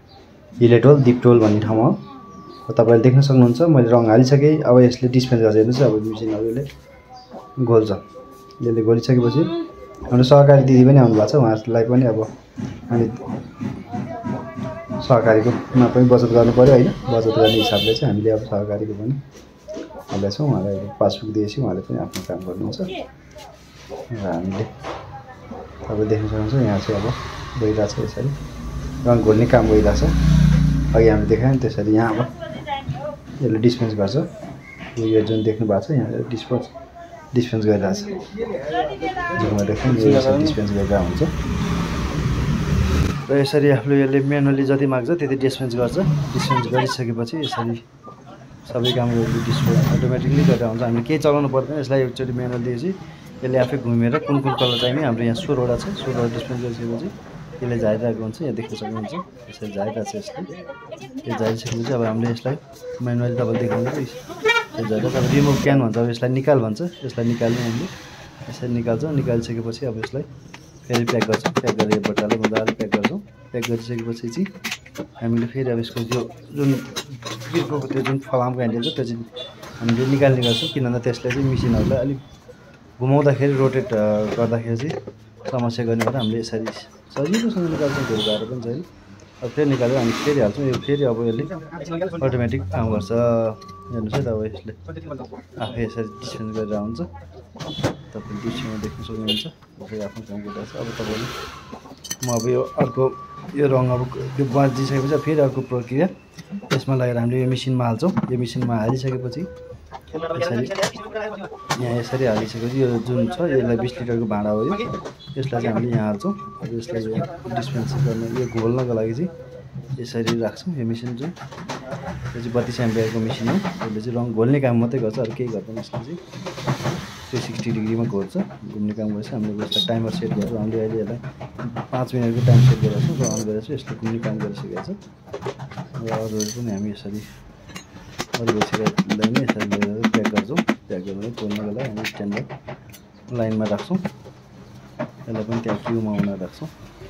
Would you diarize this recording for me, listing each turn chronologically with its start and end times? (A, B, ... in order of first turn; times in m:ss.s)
0:00.6-0:02.0 A
0:02.7-0:06.7 A
0:07.6-0:08.0 A
0:08.6-0:09.5 A
0:10.1-0:12.3 A
0:12.9-0:13.2 A
0:15.0-0:19.2 A
0:20.1-0:23.0 A
0:24.1-0:24.7 A
0:25.9-0:28.4 A
0:29.0-0:30.2 A
0:30.9-0:32.3 A
0:33.4-0:34.3 A
0:35.0-0:36.7 A
0:37.3-0:38.3 A
0:39.3-0:41.3 A
0:43.3-0:47.8 A
0:48.7-1:00.5 A
1:01.2-1:04.2 A
1:04.7-1:08.0 A
1:08.5-1:10.3 A
1:10.9-1:14.5 A
1:15.2-1:19.3 A
1:19.8-1:22.2 A
1:23.0-1:25.0 A
1:25.5-1:28.9 A
1:29.4-1:37.1 A
1:38.1-1:41.3 A
1:42.2-1:46.1 A
1:46.7-1:49.5 A
1:50.2-1:51.2 A
1:51.8-1:59.3 A
2:00.0-2:01.4 A
2:02.3-2:06.2 A
2:07.3-2:15.0 A
2:16.0-2:17.3 A
2:18.4-2:22.5 A
2:23.3-2:24.0 A
2:25.3-2:26.7 A